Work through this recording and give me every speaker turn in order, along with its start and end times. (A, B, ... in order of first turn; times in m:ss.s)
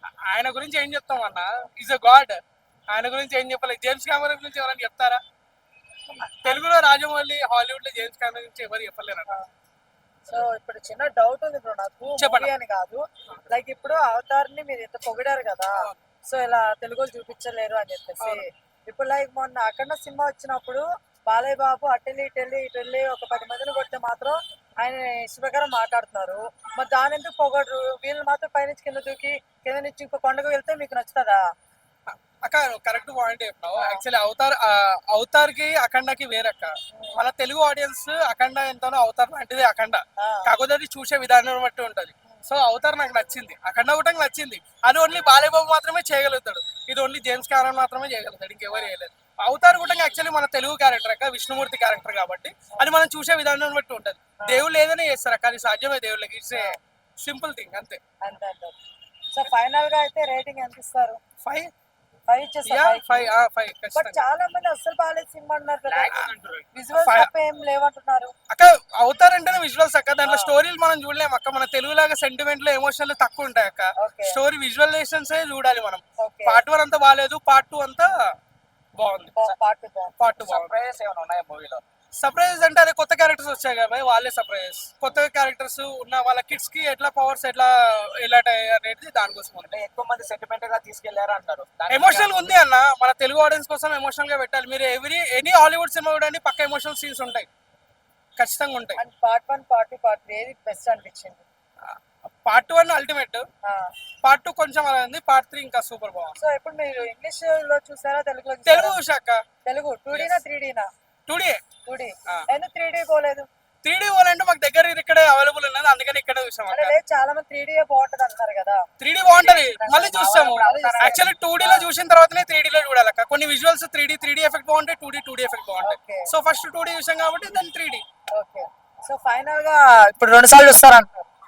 0:00.2-0:05.2 A
0:06.4-0:09.3 A
0:10.3-0:31.4 B
0:12.2-0:12.5 A
0:32.1-0:58.0 A
0:33.8-0:34.0 B
0:36.9-0:37.2 B
0:40.2-0:40.5 B
0:54.4-0:54.7 B
0:58.2-0:58.7 B
0:59.3-1:01.2 B
1:01.4-1:01.7 A
1:02.3-1:03.3 B
1:02.6-1:04.2 A
1:03.9-1:06.2 B
1:05.8-1:06.7 C
1:06.7-1:08.3 B
1:07.0-1:07.3 A
1:08.5-1:18.1 A
1:10.2-1:10.6 B
1:14.0-1:14.4 B
1:16.2-1:16.6 B
1:19.0-1:19.4 A
1:19.4-1:20.1 B
1:20.2-1:20.8 A
1:20.4-1:21.8 C
1:22.2-1:29.7 A
1:29.6-1:32.5 C
1:31.9-1:37.5 A
1:38.4-1:39.0 A
1:39.0-1:41.4 B
1:41.8-1:43.4 A
1:43.6-1:43.9 B
1:44.2-1:46.4 A
1:46.4-1:49.0 B
1:48.6-1:49.4 A
1:49.6-1:50.9 B
1:50.1-1:50.4 A
1:51.3-1:51.6 A
1:51.8-1:53.5 B
1:53.8-1:57.0 A
1:56.7-1:58.8 B
1:59.0-2:08.0 A
1:59.4-2:01.9 B
2:00.2-2:01.1 C
2:05.8-2:06.3 B
2:08.3-2:11.2 B